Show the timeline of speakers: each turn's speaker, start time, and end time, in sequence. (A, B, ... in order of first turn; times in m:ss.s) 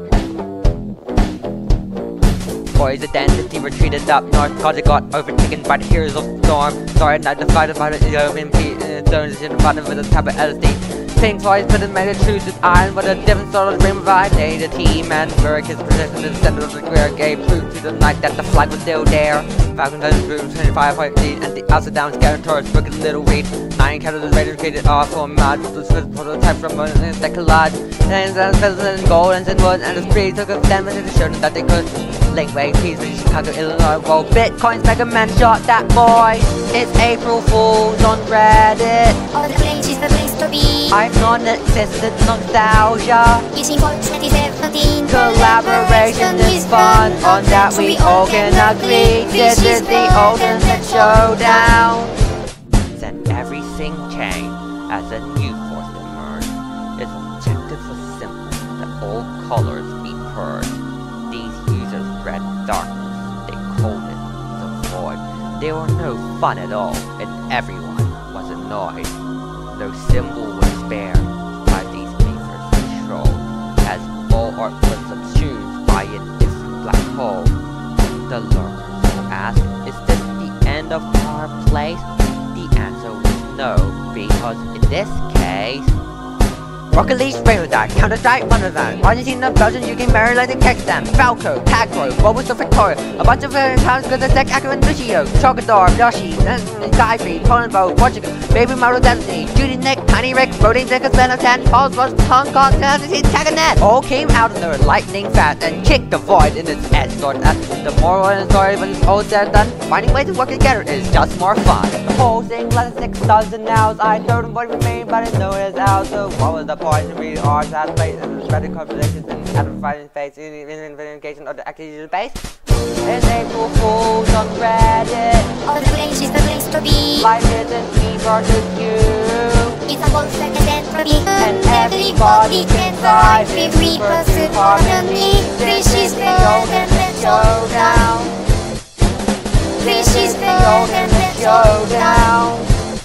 0:02.7-0:39.2 A
0:39.3-0:41.0 B
0:40.9-0:43.5 A
0:43.5-0:51.8 B
0:45.0-0:52.1 A
0:53.0-1:09.2 A
1:09.7-1:17.6 A
1:18.3-1:25.9 A
1:26.9-2:02.4 A
2:03.0-2:05.6 A
2:05.6-2:07.3 B
2:07.2-2:09.8 A
2:09.9-2:18.2 B
2:11.3-2:18.3 A
2:19.8-2:22.7 A
2:19.8-2:22.4 B